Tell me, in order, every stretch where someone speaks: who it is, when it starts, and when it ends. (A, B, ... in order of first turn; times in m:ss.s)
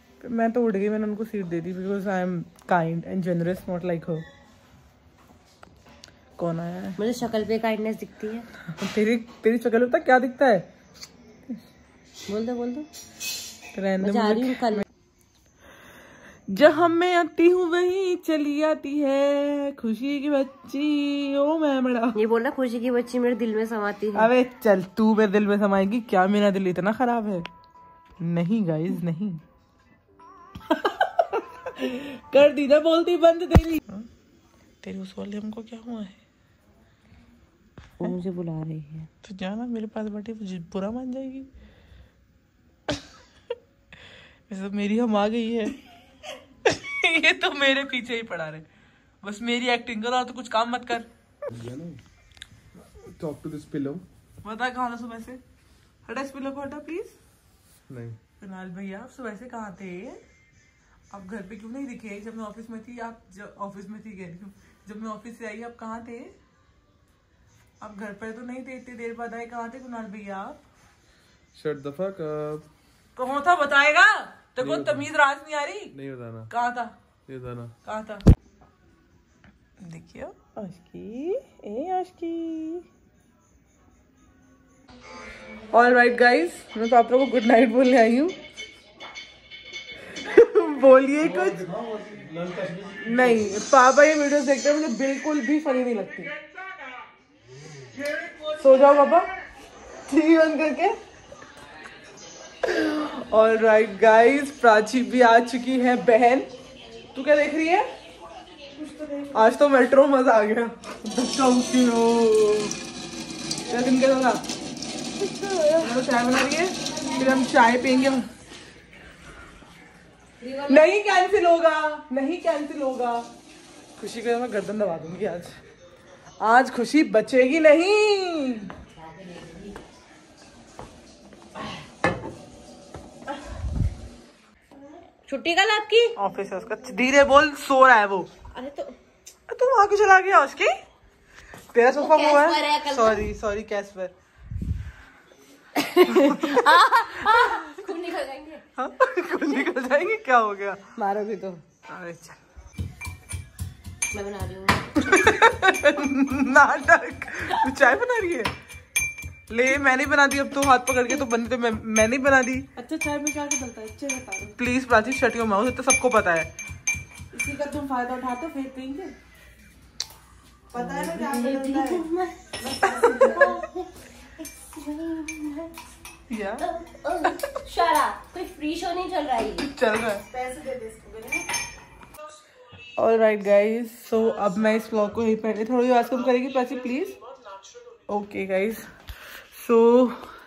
0:00.2-0:04.2 A
0:06.4-0:07.0 A
0:07.0-0:08.5 B
0:08.7-0:10.7 A
0:12.3-0:12.9 B
0:13.7-0:14.8 A
0:14.0-0:14.8 B
0:16.5-0:22.2 A
0:22.1-0:24.3 B
0:24.1-0:27.5 A
0:28.2-0:29.4 A
0:30.7-0:34.0 A
0:34.8-0:36.2 A
0:38.0-0:39.1 B
0:39.2-0:41.5 A
0:44.5-0:45.8 A
0:46.6-0:48.7 A
0:49.2-0:51.1 A
0:51.5-0:52.0 C
0:53.0-0:54.0 C
0:54.4-0:55.4 A
0:56.0-0:57.2 A
0:57.9-0:58.2 C
0:58.4-1:00.2 A
1:01.1-1:06.3 A
1:07.8-1:10.6 A
1:11.5-1:12.7 C
1:13.2-1:16.0 A
1:14.6-1:15.1 C
1:15.9-1:16.5 C
1:16.5-1:16.9 A
1:17.3-1:17.7 C
1:17.8-1:18.2 A
1:19.8-1:22.8 A
1:25.7-1:28.4 A
1:30.1-1:31.6 A
1:31.2-1:33.3 C
1:33.0-1:36.3 A
1:38.4-1:39.3 A
1:40.1-1:41.0 A
1:42.6-1:46.5 A
1:47.1-1:47.9 A
1:48.8-1:49.3 B
1:49.3-1:52.7 A
1:53.7-1:54.4 A
1:55.3-1:58.2 A
2:00.4-2:00.9 B
2:00.7-2:03.3 A
2:04.0-2:05.6 A
2:06.4-2:08.7 A
2:08.9-2:09.8 B
2:15.2-2:16.2 B
2:16.2-2:18.3 A
2:18.5-2:19.0 B
2:19.5-2:20.7 A
2:21.7-2:24.1 A
2:21.9-2:23.3 B
2:25.8-2:28.6 B
2:26.1-2:27.6 A
2:28.8-2:30.8 A
2:31.0-2:31.6 B
2:31.9-2:32.4 A
2:34.1-2:34.8 B
2:35.0-2:38.5 A
2:39.5-2:42.7 A
2:42.8-2:44.5 B
2:42.9-2:44.0 D
2:44.5-2:46.5 A
2:47.3-2:48.8 B
2:47.5-2:49.1 D
2:50.7-2:55.7 B
2:50.7-2:52.1 D
2:52.8-2:53.4 D
2:56.3-2:56.6 A
2:56.6-2:59.7 B
2:59.6-3:00.2 A
3:00.3-3:00.8 D
3:00.3-3:01.4 B
3:03.0-3:07.2 A
3:08.1-3:08.8 A
3:09.5-3:10.3 A